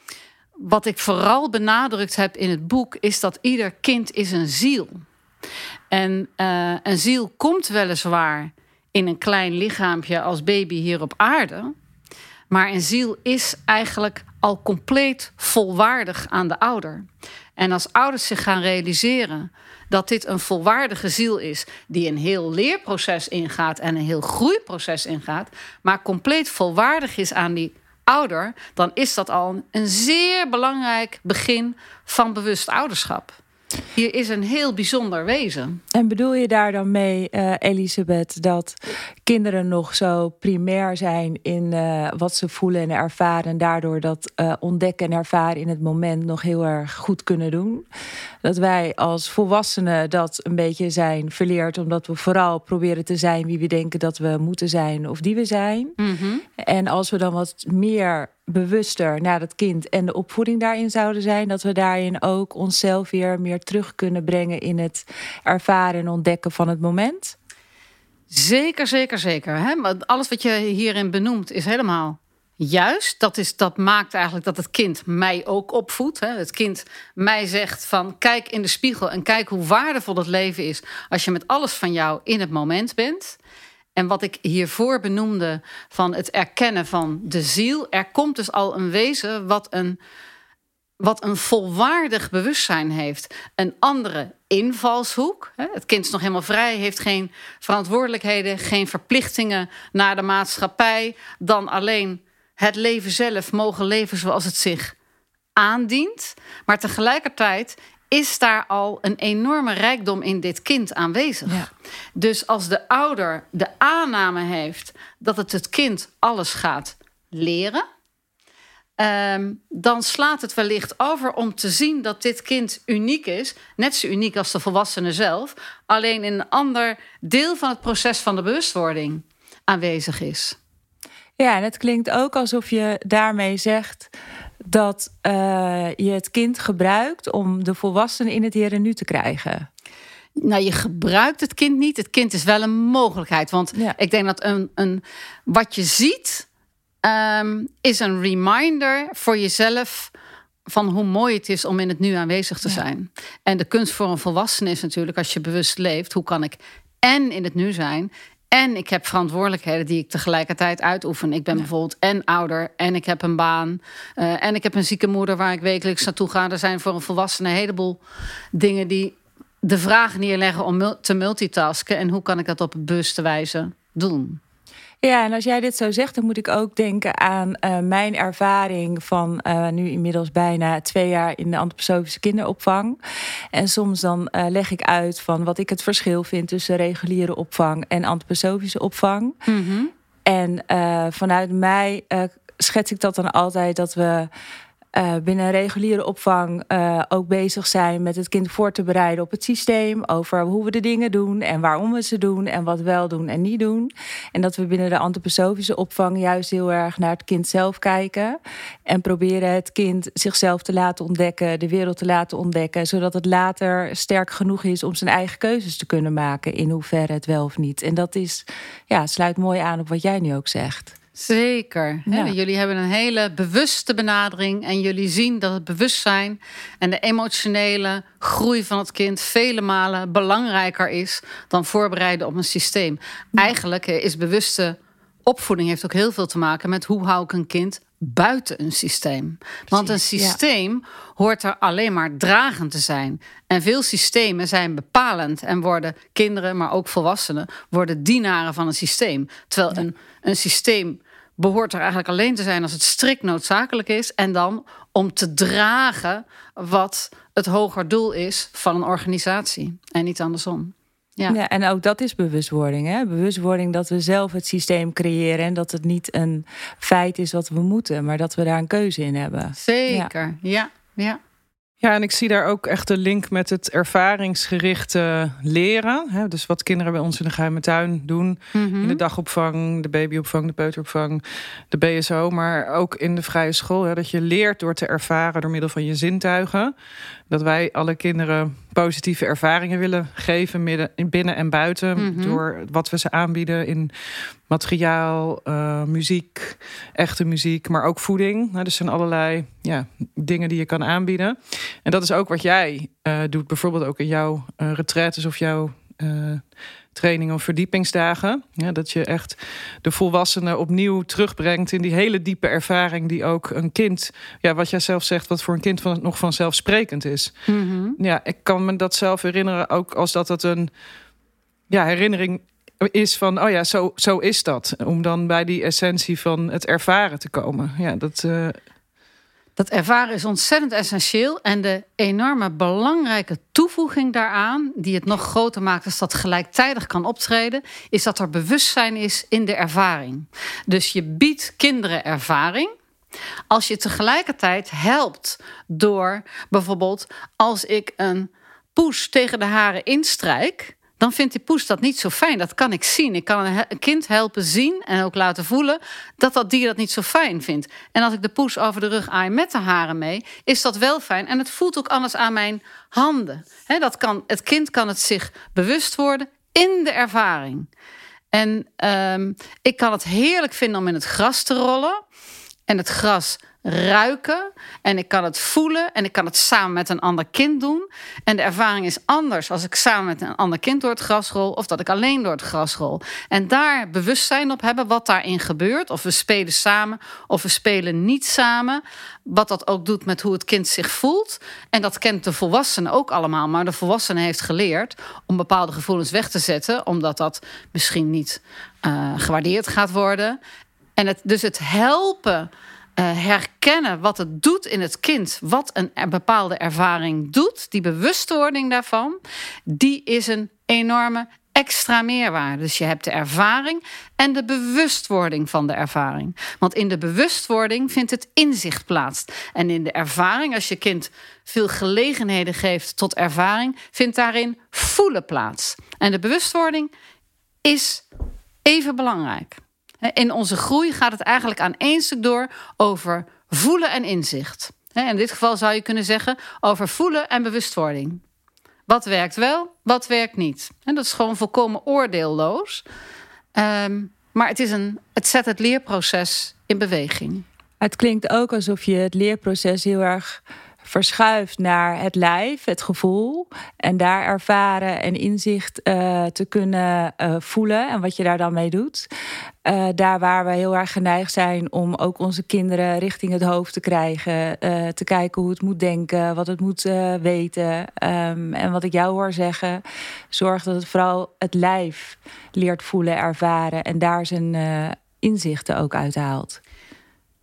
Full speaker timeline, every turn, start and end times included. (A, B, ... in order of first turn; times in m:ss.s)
0:00.6-0:05.0 A
0:05.9-0:11.7 A
0:12.5-0:17.0 A
0:17.6-0:33.3 A
0:33.9-0:35.8 A
0:35.9-0:47.8 B
0:48.4-0:56.0 B
0:56.0-0:56.4 A
0:56.6-1:07.4 B
1:08.3-1:23.4 A
1:24.0-1:30.0 A
1:31.0-1:44.9 A
1:45.6-1:57.8 A
1:59.0-2:10.6 A
2:11.4-2:19.7 B
2:20.4-2:26.5 A
2:27.0-2:30.1 A
2:30.7-2:48.0 A
2:48.5-2:54.4 A
2:55.0-3:03.0 B
3:03.5-3:09.4 B
3:09.5-3:09.9 A
3:10.2-3:14.3 B
3:14.9-3:41.0 B
3:41.2-4:21.4 A
3:42.1-3:42.3 B
3:59.7-4:00.4 B
4:21.3-4:30.1 B
4:29.6-4:31.2 A
4:31.8-4:46.7 C
4:38.5-4:39.0 A
4:47.3-4:53.9 C
4:52.0-4:52.4 A
4:54.5-5:06.4 C
5:06.9-5:17.4 C
5:17.5-5:18.0 A
5:18.0-5:20.7 C
5:21.7-5:28.6 C
5:29.6-5:42.7 A
5:43.5-6:07.7 A
6:08.3-6:12.0 A
6:12.7-6:40.4 A
6:41.0-7:06.9 A
7:07.6-7:08.0 A
7:08.6-7:18.2 A
7:18.9-7:22.8 A
7:23.5-7:27.4 A
7:27.8-7:39.1 B
7:39.6-7:56.6 B